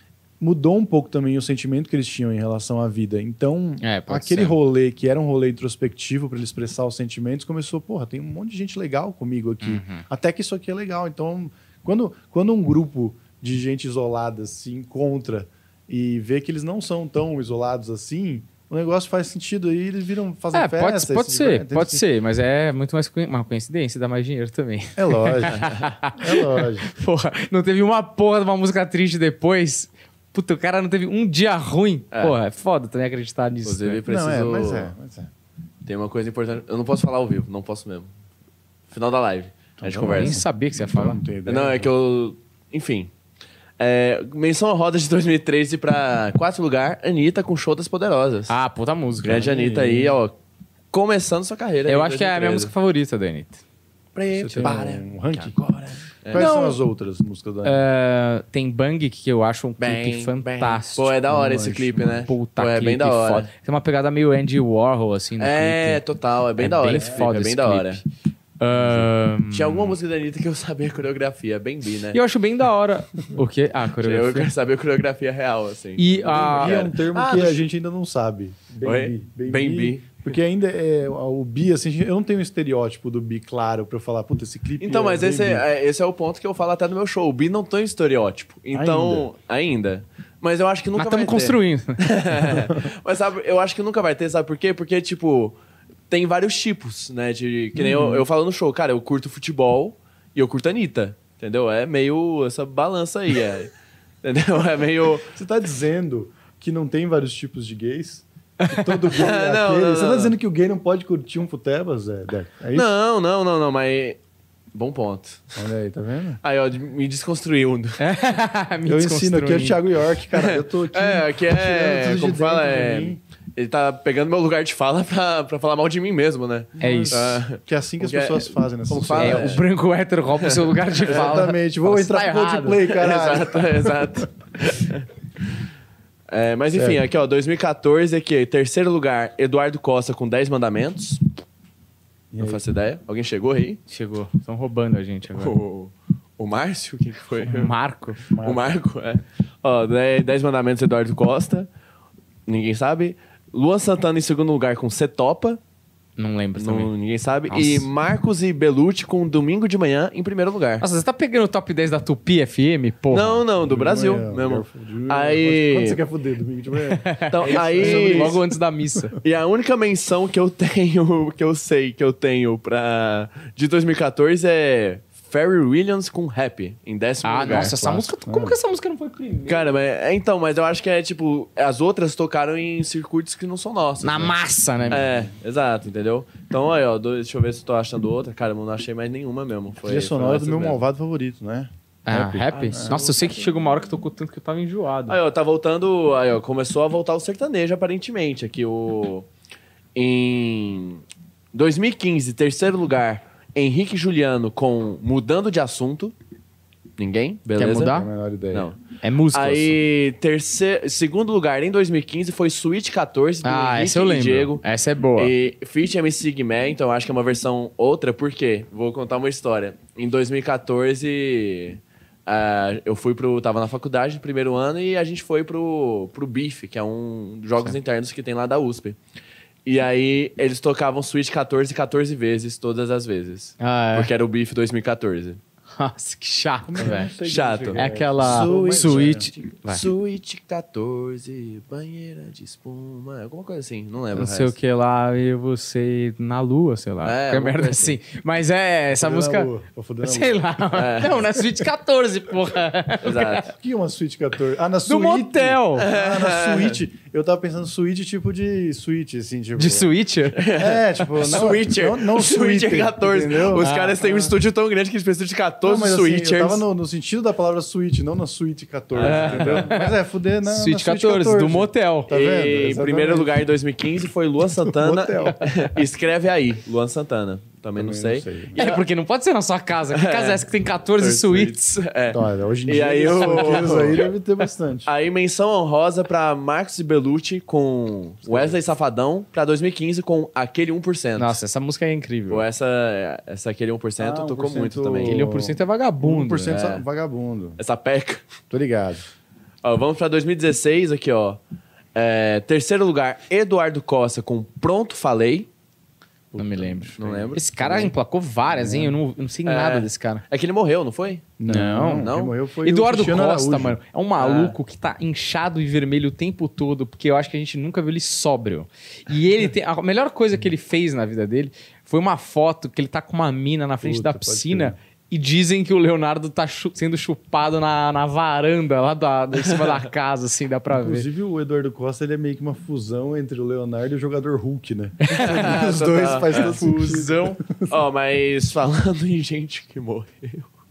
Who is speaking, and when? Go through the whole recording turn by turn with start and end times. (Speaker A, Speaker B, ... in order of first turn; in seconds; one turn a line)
Speaker A: 0.4-22.0
Speaker B: 3.8-4.6
Speaker B: 9.6-10.0
Speaker B: 20.5-34.0
Speaker A: 25.0-26.9
Speaker C: 33.6-34.9
Speaker A: 34.0-35.3
Speaker C: 35.8-38.1
Speaker C: 38.9-40.4
Speaker A: 39.8-41.9
Speaker B: 40.0-41.2
Speaker C: 41.5-43.1
Speaker C: 43.8-48.5
Speaker B: 48.5-49.5
Speaker C: 49.2-50.3
Speaker A: 49.3-50.2
Speaker C: 50.9-52.7
Speaker B: 51.9-53.6
Speaker C: 54.1-56.5
Speaker A: 54.3-55.6
Speaker A: 56.3-57.8
Speaker B: 56.3-56.8
Speaker B: 57.6-61.1
Speaker C: 59.8-63.5
Speaker A: 61.3-62.3
Speaker B: 62.3-66.0
Speaker C: 65.4-68.0
Speaker B: 66.6-68.0
Speaker A: 66.9-67.2
Speaker B: 68.6-70.0
Speaker A: 68.8-69.0
Speaker C: 69.5-72.2
Speaker B: 72.1-74.5
Speaker C: 74.0-77.6
Speaker B: 76.0-76.8
Speaker A: 76.3-85.7
Speaker C: 78.8-80.3
Speaker C: 84.8-95.5
Speaker A: 88.7-89.3
Speaker B: 91.0-92.0
Speaker C: 96.1-103.7
Speaker A: 97.8-98.3
Speaker C: 104.2-105.3
Speaker A: 105.3-112.9
Speaker C: 109.1-110.3
Speaker C: 112.7-114.2
Speaker C: 114.7-115.6
Speaker A: 115.6-116.4
Speaker C: 116.4-118.0
Speaker B: 118.0-119.8
Speaker A: 118.8-123.2
Speaker C: 120.3-129.6
Speaker A: 126.8-129.6
Speaker B: 126.8-127.2
Speaker B: 129.2-132.9
Speaker C: 130.4-131.4
Speaker A: 131.0-133.9
Speaker C: 132.9-135.1
Speaker C: 136.3-141.2
Speaker A: 136.7-137.0
Speaker A: 142.3-142.6
Speaker C: 142.4-143.8
Speaker B: 143.9-145.5
Speaker C: 145.3-151.7
Speaker B: 147.4-148.2
Speaker A: 148.3-148.7
Speaker C: 152.5-155.6
Speaker B: 156.2-156.9
Speaker C: 156.6-160.8
Speaker B: 157.5-157.9
Speaker B: 160.8-163.4
Speaker C: 163.1-166.0
Speaker A: 163.6-168.4
Speaker B: 166.9-169.2
Speaker C: 167.3-168.4
Speaker C: 169.2-177.8
Speaker B: 177.2-179.7
Speaker A: 177.4-178.6
Speaker C: 179.5-184.3
Speaker B: 184.0-185.1
Speaker A: 184.9-185.3
Speaker C: 184.9-190.8
Speaker A: 189.8-193.0
Speaker B: 192.1-195.2
Speaker C: 192.5-193.6
Speaker C: 195.1-199.3
Speaker C: 199.9-206.1
Speaker C: 207.0-207.9
Speaker B: 207.6-208.1
Speaker A: 207.7-208.7
Speaker C: 208.5-208.8
Speaker B: 209.0-209.8
Speaker C: 209.3-214.6
Speaker B: 213.4-215.3
Speaker C: 215.2-229.0
Speaker C: 229.6-235.4
Speaker B: 233.6-234.1
Speaker B: 235.8-237.1
Speaker A: 236.6-239.3
Speaker C: 236.8-244.5
Speaker B: 237.8-239.8
Speaker B: 244.1-249.5
Speaker C: 247.0-248.0
Speaker A: 249.0-250.4
Speaker B: 250.0-253.5
Speaker C: 250.7-251.2
Speaker C: 253.0-253.5
Speaker A: 253.5-259.9
Speaker B: 254.8-255.9
Speaker C: 255.8-256.8
Speaker B: 259.6-260.5
Speaker C: 260.4-266.6
Speaker A: 260.5-264.3
Speaker B: 263.6-264.0
Speaker A: 265.6-273.4
Speaker C: 268.9-269.7
Speaker B: 269.0-269.9
Speaker B: 270.4-272.1
Speaker C: 272.1-278.8
Speaker A: 274.6-275.8
Speaker A: 277.8-278.6
Speaker B: 278.6-281.8
Speaker C: 279.9-284.1
Speaker A: 282.1-284.9
Speaker B: 283.1-283.9
Speaker C: 284.9-291.4
Speaker A: 288.2-288.6
Speaker B: 291.2-292.4
Speaker C: 292.3-295.2
Speaker A: 294.0-297.6
Speaker B: 295.0-296.6
Speaker C: 296.5-296.8
Speaker C: 297.6-298.3
Speaker A: 298.5-299.0
Speaker C: 299.6-301.4
Speaker C: 301.9-305.5
Speaker A: 306.3-307.9
Speaker B: 306.4-310.2
Speaker C: 307.0-307.9
Speaker A: 308.4-309.0
Speaker C: 309.4-311.3
Speaker A: 311.4-313.8
Speaker B: 311.5-331.1
Speaker C: 312.0-312.3
Speaker C: 314.2-314.6
Speaker A: 323.8-324.7
Speaker C: 329.4-329.8
Speaker A: 330.7-337.7
Speaker B: 335.0-335.6
Speaker C: 335.2-336.6
Speaker B: 336.4-337.4
Speaker C: 337.7-340.5